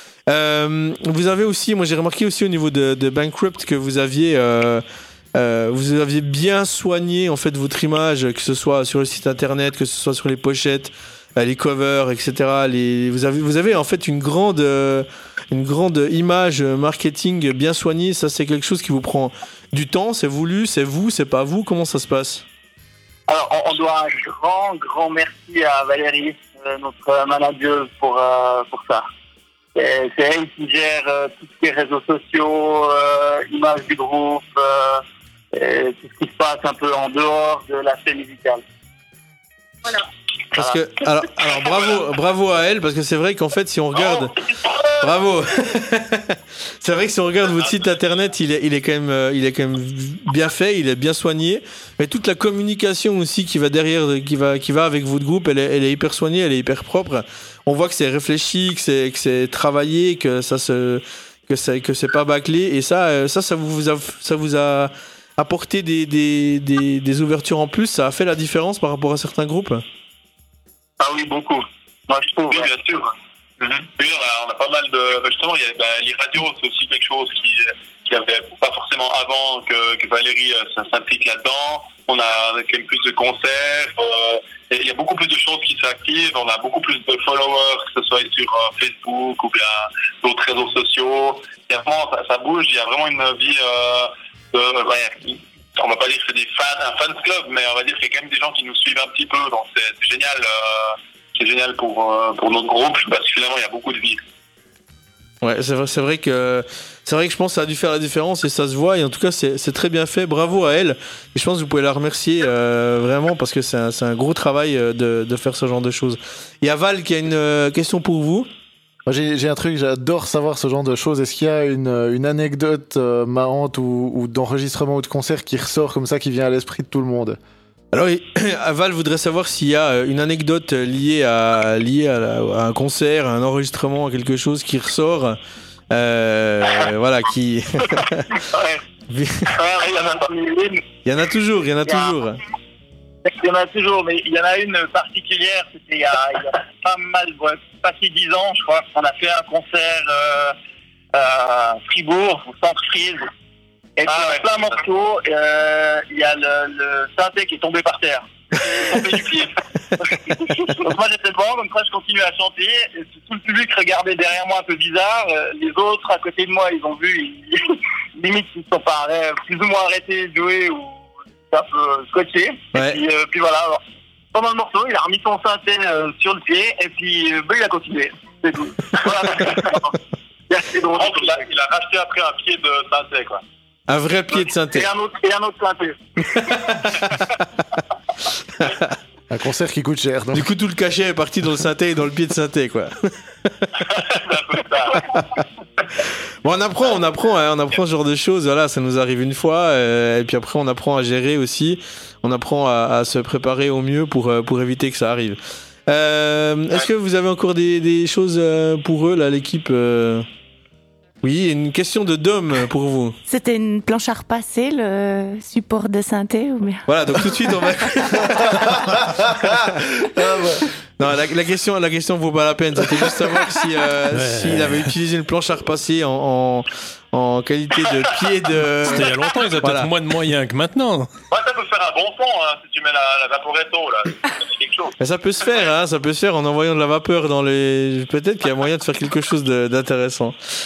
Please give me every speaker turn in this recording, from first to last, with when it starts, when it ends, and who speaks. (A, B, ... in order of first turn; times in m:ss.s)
0:00.3-0:04.8 A
0:05.4-0:22.4 A
0:23.3-0:29.1 B
0:29.8-0:38.6 B
0:40.5-0:44.3 A
0:43.9-0:45.2 C
0:45.0-1:09.8 A
1:11.0-1:12.8 B
1:12.5-1:13.1 C
1:13.6-1:44.2 C
1:45.4-1:58.5 A
1:59.1-2:07.4 D
2:07.9-2:15.4 A
2:15.9-2:18.4 A
2:18.4-2:18.8 B
2:19.1-2:19.5 A
2:19.5-2:20.8 B
2:21.0-2:22.4 A
2:21.9-2:22.2 B
2:23.2-2:30.6 B
2:31.1-2:33.3 B
2:34.0-2:53.8 B
2:34.1-2:34.7 C
2:38.8-2:39.4 C
2:52.7-2:53.0 A
2:54.3-3:00.0 B
2:59.3-2:59.7 C
3:00.5-3:01.4 B
3:00.9-3:03.4 C
3:03.9-3:04.9 A
3:04.7-3:06.5 B
3:06.3-3:07.2 A
3:08.6-3:08.9 A
3:09.3-3:10.5 D
3:10.3-3:13.7 A
3:13.9-3:15.4 C
3:16.4-3:30.3 A
3:31.2-3:33.2 A
3:33.3-3:37.3 E
3:36.9-3:38.8 A
3:38.2-3:40.7 D
3:41.0-3:49.9 A
3:44.1-3:44.9 F
3:48.9-3:51.1 F
3:51.3-3:55.0 C
3:55.0-4:00.4 A